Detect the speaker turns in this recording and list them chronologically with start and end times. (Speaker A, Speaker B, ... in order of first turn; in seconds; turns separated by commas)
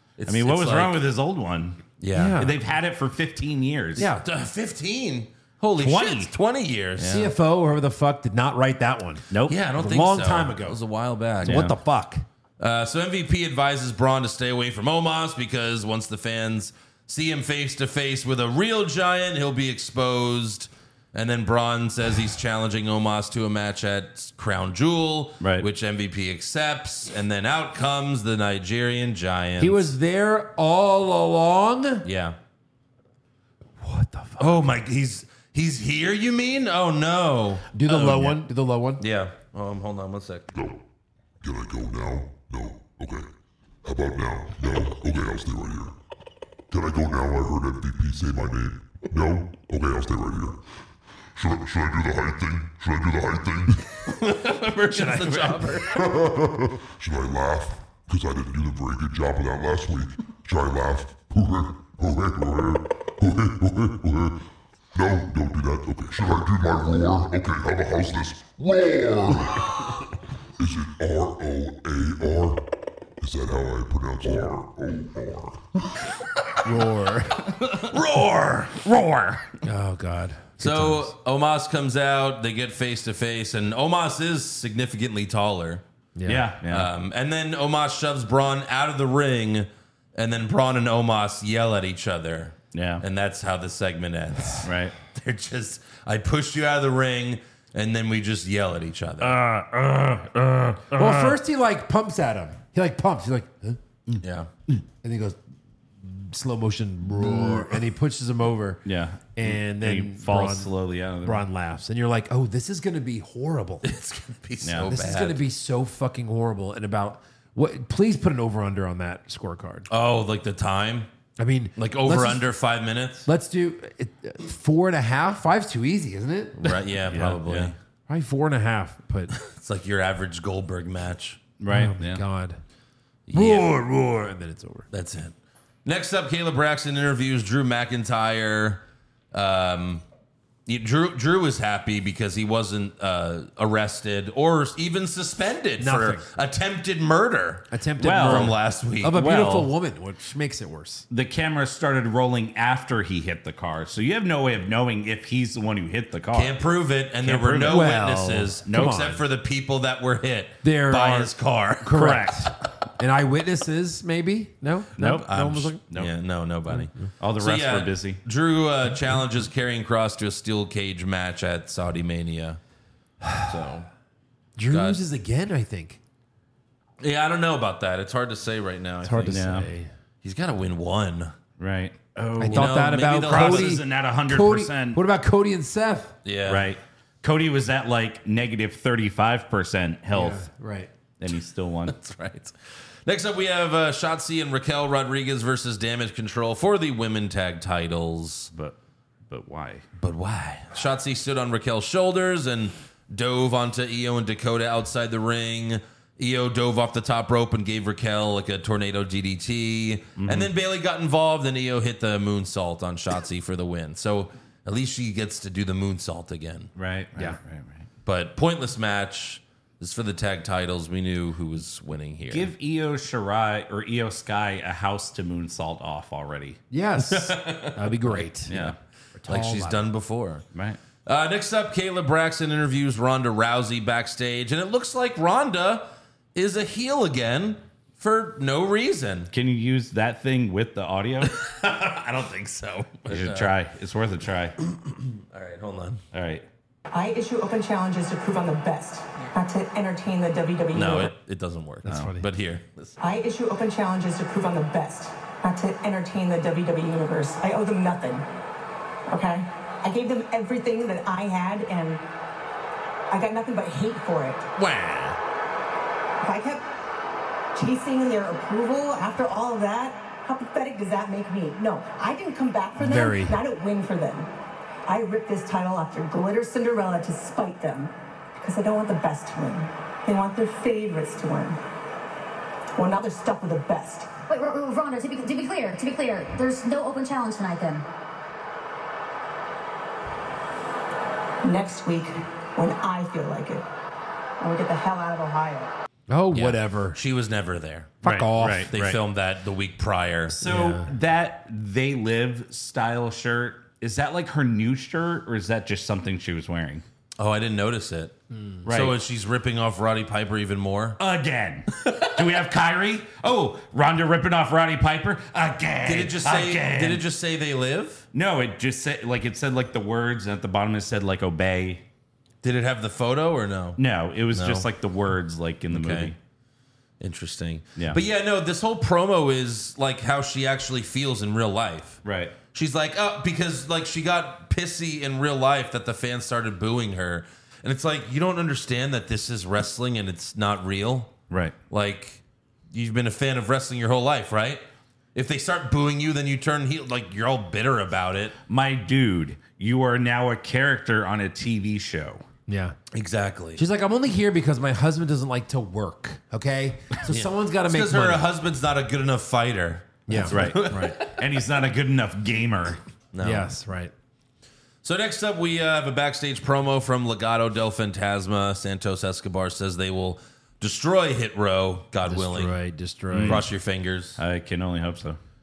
Speaker A: 0.2-1.0, Speaker B: 0.3-1.8, Speaker A: 2.0-2.4, Speaker C: 2.1-2.5, Speaker B: 2.4-4.1, Speaker C: 4.0-4.2, Speaker A: 4.0-7.3, Speaker B: 5.8-6.3, Speaker B: 7.0-7.2, Speaker C: 7.1-10.8, Speaker B: 9.3-9.6, Speaker A: 9.4-11.7, Speaker C: 11.4-12.2, Speaker B: 11.4-11.7, Speaker A: 12.6-29.9, Speaker B: 25.4-25.6, Speaker C: 29.6-32.0, Speaker A: 32.0-32.4, Speaker C: 33.8-34.6, Speaker A: 34.4-38.4, Speaker C: 37.7-39.0, Speaker A: 39.0-40.5, Speaker D: 40.5-40.8, Speaker D: 41.4-43.3, Speaker D: 43.8-45.9, Speaker D: 46.7-50.6, Speaker D: 51.4-54.0, Speaker A: 54.0-56.0, Speaker D: 55.9-70.0, Speaker D: 70.6-72.7, Speaker D: 73.2-75.8, Speaker C: 76.6-77.4, Speaker B: 77.4-78.0, Speaker A: 77.9-78.8, Speaker B: 78.7-79.5, Speaker C: 79.6-81.1, Speaker A: 80.6-85.8, Speaker C: 86.2-86.4, Speaker B: 86.2-86.9, Speaker A: 86.6-99.4, Speaker B: 92.7-93.0, Speaker B: 94.6-94.9, Speaker B: 99.2-101.4, Speaker C: 100.9-103.8, Speaker A: 104.2-104.5, Speaker C: 105.0-105.4, Speaker C: 106.0-108.8, Speaker A: 107.1-107.7, Speaker B: 108.8-111.4, Speaker C: 109.3-113.8, Speaker A: 113.8-115.4, Speaker B: 114.6-114.9, Speaker C: 114.8-119.9, Speaker A: 119.9-121.1, Speaker C: 121.4-122.4, Speaker A: 121.8-123.3, Speaker C: 123.2-126.6, Speaker A: 126.6-127.8, Speaker B: 127.1-127.7, Speaker C: 128.1-129.3, Speaker A: 129.4-131.4, Speaker B: 131.6-132.2, Speaker C: 131.7-132.6, Speaker A: 133.3-133.7, Speaker C: 133.3-134.8, Speaker A: 134.9-140.0, Speaker A: 140.7-149.2, Speaker C: 145.8-146.2, Speaker C: 147.7-151.1, Speaker B: 148.0-148.5, Speaker B: 149.1-149.7, Speaker B: 151.1-156.6, Speaker A: 156.3-162.0, Speaker B: 157.2-157.9, Speaker C: 157.6-159.1, Speaker B: 158.7-159.1, Speaker C: 160.6-165.8, Speaker B: 161.9-162.5, Speaker B: 165.0-165.3, Speaker A: 165.2-172.6, Speaker B: 167.2-168.2, Speaker A: 173.4-173.9, Speaker C: 174.6-176.0, Speaker A: 174.7-175.0, Speaker A: 177.0-179.7, Speaker C: 179.0-179.9, Speaker B: 179.3-179.7, Speaker A: 180.2-181.4, Speaker B: 181.6-185.0, Speaker C: 182.4-186.1, Speaker A: 182.5-183.8, Speaker A: 186.2-186.7, Speaker B: 186.5-190.4, Speaker C: 190.1-190.9, Speaker B: 191.2-191.9, Speaker A: 191.9-198.5, Speaker B: 199.3-199.8, Speaker A: 200.0-216.7, Speaker B: 210.2-210.5, Speaker B: 216.8-217.9, Speaker A: 218.1-222.5, Speaker B: 222.3-226.6, Speaker C: 226.7-228.6, Speaker A: 227.1-228.0, Speaker B: 228.5-228.8, Speaker C: 229.2-229.9, Speaker A: 229.3-230.4, Speaker A: 231.1-239.3, Speaker B: 239.3-241.3, Speaker A: 241.2-243.5, Speaker B: 243.1-244.6, Speaker A: 244.6-246.0, Speaker B: 246.1-246.4, Speaker E: 246.9-251.1, Speaker A: 250.7-252.9, Speaker C: 251.8-252.2, Speaker B: 251.9-252.1, Speaker E: 253.0-258.2, Speaker E: 259.1-262.0, Speaker E: 263.1-264.5, Speaker A: 264.6-265.2, Speaker E: 266.2-266.6, Speaker E: 267.5-274.3, Speaker C: 272.8-273.4, Speaker E: 274.8-281.6, Speaker E: 282.8-284.1, Speaker F: 284.3-287.8, Speaker E: 291.4-293.6, Speaker E: 294.4-295.7, Speaker C: 296.1-297.0, Speaker A: 296.3-297.9, Speaker C: 298.0-298.7, Speaker B: 298.0-299.0, Speaker A: 298.7-300.4, Speaker B: 300.3-306.8, Speaker C: 300.4-300.9, Speaker A: 307.2-311.0, Speaker C: 308.3-308.6, Speaker B: 308.6-308.9, Speaker B: 311.0-317.0, Speaker A: 311.8-312.2, Speaker A: 315.8-318.0, Speaker B: 318.1-321.8, Speaker A: 322.4-323.8, Speaker B: 323.8-326.2, Speaker A: 324.3-324.7, Speaker A: 325.7-326.1, Speaker A: 327.0-332.0, Speaker B: 332.0-332.4, Speaker A: 332.5-341.1, Speaker B: 341.3-341.5, Speaker A: 341.7-344.6, Speaker A: 345.1-348.3, Speaker B: 348.5-352.2, Speaker C: 352.5-352.8, Speaker A: 352.9-353.6, Speaker C: 353.6-358.2, Speaker A: 357.1-361.1, Speaker C: 360.1-360.9, Speaker B: 360.3-362.8, Speaker A: 363.1-363.5, Speaker C: 363.2-363.9, Speaker A: 364.8-372.5, Speaker C: 372.1-373.4, Speaker B: 373.1-373.4, Speaker A: 373.2-374.2, Speaker B: 374.2-375.2